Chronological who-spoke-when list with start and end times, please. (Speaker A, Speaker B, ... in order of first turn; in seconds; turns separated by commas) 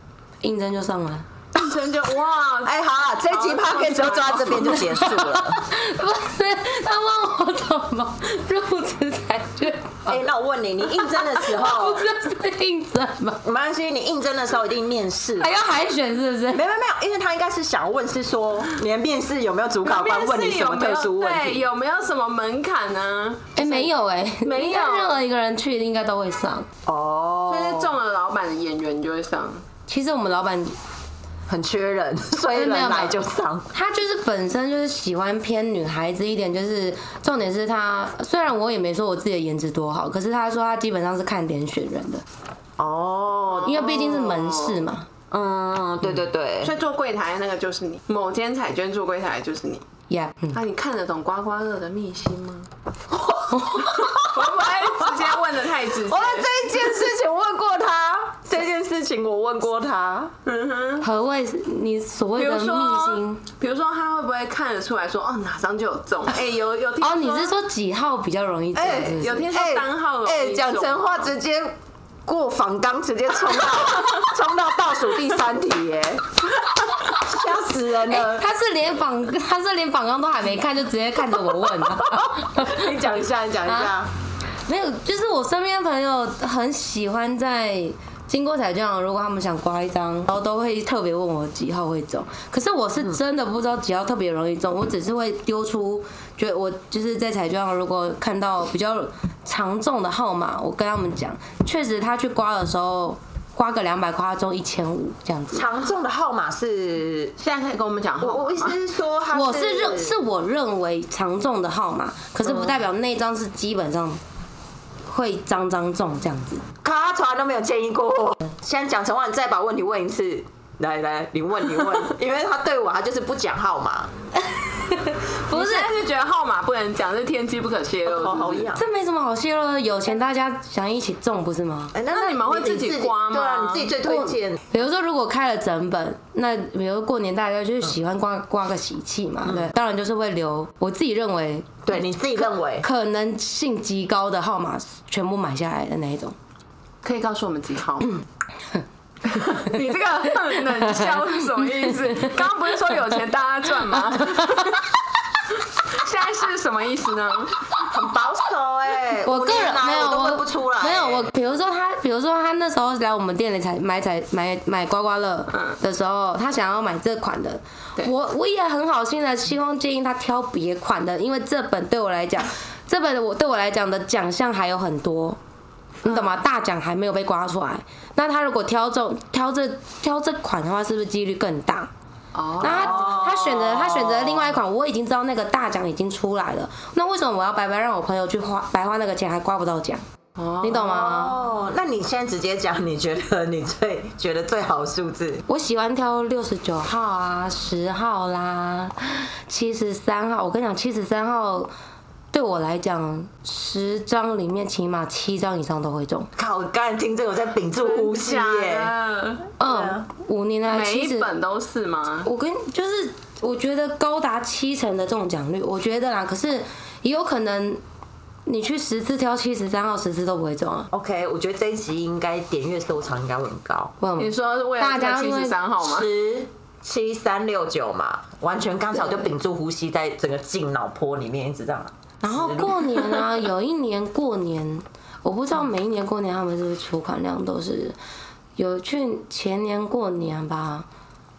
Speaker A: 0.4-1.3, Speaker B: 1.6-2.8, Speaker C: 2.6-5.6, Speaker B: 3.3-5.0, Speaker A: 4.9-10.2, Speaker C: 10.1-12.1, Speaker A: 11.0-13.4, Speaker C: 13.4-15.6, Speaker A: 15.4-16.6, Speaker C: 16.5-21.6, Speaker B: 19.8-25.2, Speaker A: 23.6-26.7, Speaker C: 26.9-27.9, Speaker B: 27.5-29.6, Speaker A: 29.9-30.8, Speaker C: 31.5-33.7, Speaker A: 32.5-33.2, Speaker A: 33.7-42.2, Speaker C: 42.8-43.9, Speaker B: 43.5-44.9, Speaker A: 43.6-45.1, Speaker C: 45.3-46.8, Speaker B: 46.6-49.8, Speaker A: 50.1-50.6, Speaker B: 50.5-52.7, Speaker C: 53.1-55.2, Speaker A: 53.5-54.0, Speaker B: 53.8-56.8, Speaker C: 55.9-60.3, Speaker B: 60.5-61.1, Speaker A: 61.0-63.4, Speaker B: 62.4-67.5, Speaker A: 67.0-69.5, Speaker C: 68.8-71.7, Speaker B: 68.8-71.3, Speaker C: 72.3-76.5, Speaker C: 77.1-78.5, Speaker A: 78.1-82.9, Speaker C: 81.5-84.1, Speaker A: 83.7-83.9, Speaker A: 84.7-105.7, Speaker C: 105.5-107.3, Speaker B: 107.4-108.8, Speaker C: 108.2-110.2, Speaker A: 109.3-114.2, Speaker C: 112.5-112.7, Speaker A: 115.1-116.6, Speaker C: 116.8-124.1, Speaker A: 124.7-125.9, Speaker B: 125.5-128.7, Speaker C: 128.1-128.9, Speaker A: 128.8-131.9, Speaker C: 131.9-134.6, Speaker B: 132.1-134.0, Speaker A: 134.0-141.8, Speaker C: 139.5-139.7, Speaker C: 141.8-142.9, Speaker A: 142.8-146.3, Speaker B: 147.0-148.2, Speaker B: 149.2-154.9, Speaker A: 152.1-152.4, Speaker B: 155.8-157.7, Speaker C: 157.8-161.3, Speaker A: 159.2-175.4, Speaker A: 176.0-181.9, Speaker B: 176.1-176.4, Speaker B: 182.3-183.3, Speaker C: 182.6-184.6, Speaker A: 182.6-190.0, Speaker B: 190.4-191.0, Speaker A: 190.6-191.4, Speaker C: 190.9-195.4, Speaker A: 195.5-201.7, Speaker A: 202.3-206.3, Speaker C: 206.4-208.9, Speaker B: 207.7-209.5, Speaker A: 209.6-211.3, Speaker C: 209.6-210.1, Speaker B: 210.7-212.3, Speaker A: 212.2-217.8, Speaker A: 218.5-220.9, Speaker C: 220.9-224.0, Speaker A: 224.0-225.6, Speaker B: 224.2-226.1, Speaker C: 225.8-233.3, Speaker A: 232.2-238.0, Speaker A: 238.6-240.9